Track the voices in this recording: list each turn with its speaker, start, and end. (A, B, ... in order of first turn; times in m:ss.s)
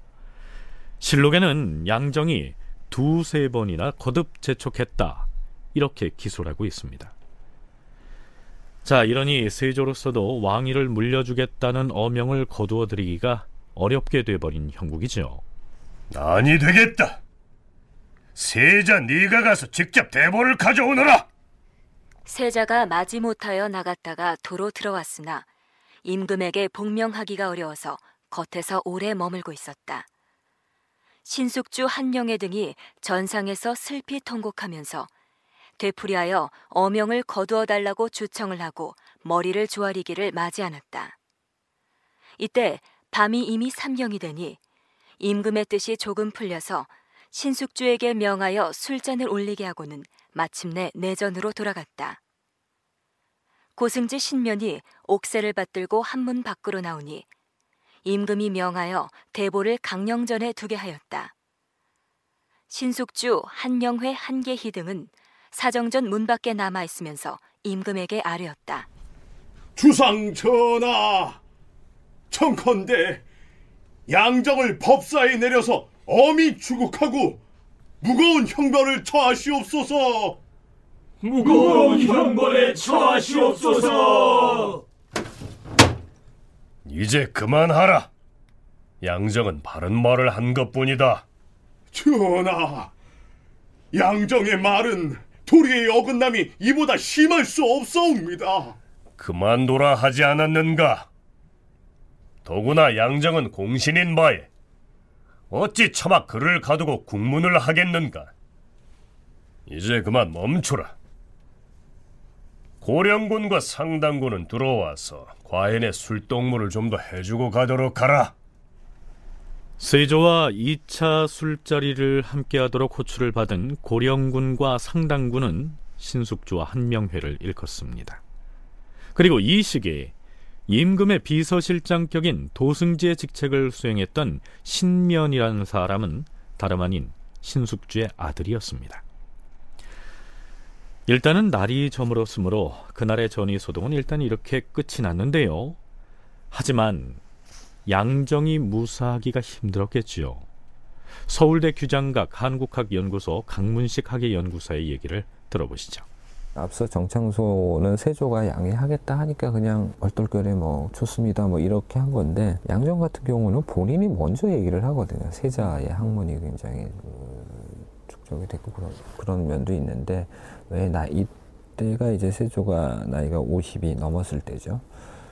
0:01.0-0:07.1 A
0:08.8-0:15.4 A
0:16.1-0:17.2 B
0:18.4-0:21.3 B
0:22.3-0:25.5 C
0:26.0-0:30.1 C
0:31.2-0:35.1 C
0:35.8-0:41.2 C
0:42.4-0:44.6 C
0:45.2-0:52.2 C
0:53.8-0:57.3 C
0:58.0-1:01.3 C
1:02.7-1:08.9 C
1:09.8-1:11.4 D
1:12.3-1:13.2 D
1:14.1-1:17.4 D
1:18.0-1:20.4 D
1:21.2-1:24.6 E
1:21.4-1:22.3 D
1:23.3-1:24.7 D
1:26.9-1:28.1 B
1:29.0-1:31.2 B
1:31.9-1:32.9 D
1:33.9-1:38.8 D
1:39.2-1:41.1 B
1:42.4-1:44.5 B
1:45.5-1:48.3 B
1:49.7-1:50.9 B
1:52.8-1:58.3 B
1:59.8-2:08.2 A
2:09.2-2:10.1 A
2:10.7-2:19.0 A
2:21.1-2:25.8 A
2:26.5-2:27.2 A
2:27.9-2:30.4 A
2:31.3-2:36.1 A
2:36.6-2:54.9 F